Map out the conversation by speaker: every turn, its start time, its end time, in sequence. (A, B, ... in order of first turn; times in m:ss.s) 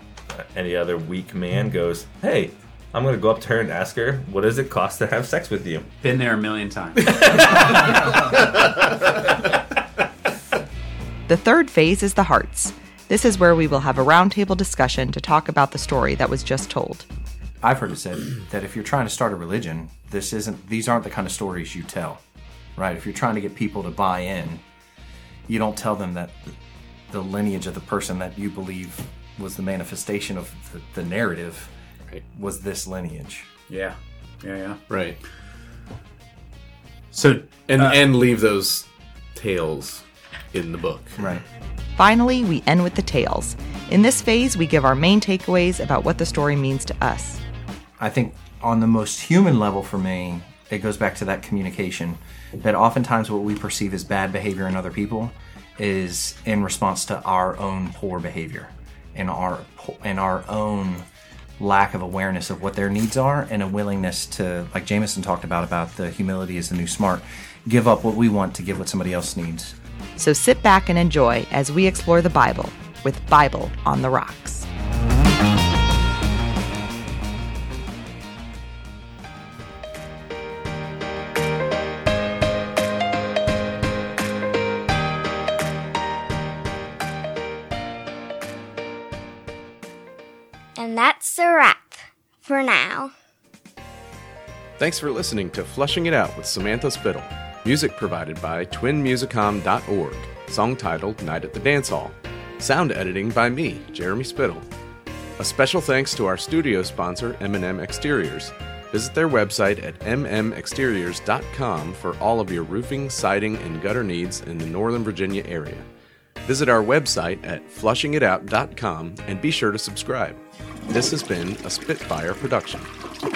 0:00.3-0:05.9 A
0:06.0-0:07.6 B
0:07.2-0:07.8 A
0:11.3-0:17.0 C
0:17.6-0:22.2 D
0:22.8-0:24.6 D
0:25.5-0:26.3 D
0:27.1-0:31.7 D
0:32.4-0:33.4 D
0:33.7-0:34.8 B
0:34.9-0:35.2 E
0:37.1-0:41.3 E
0:37.2-0:37.9 B
0:42.0-0:47.4 C
0:48.0-0:58.7 D
0:59.2-1:01.0 D
1:01.6-1:09.7 D
1:10.2-1:14.7 C
1:30.8-1:33.1 F
1:34.8-1:44.6 E
1:45.4-1:55.8 E
1:56.4-2:00.4 E
2:00.9-2:02.9 E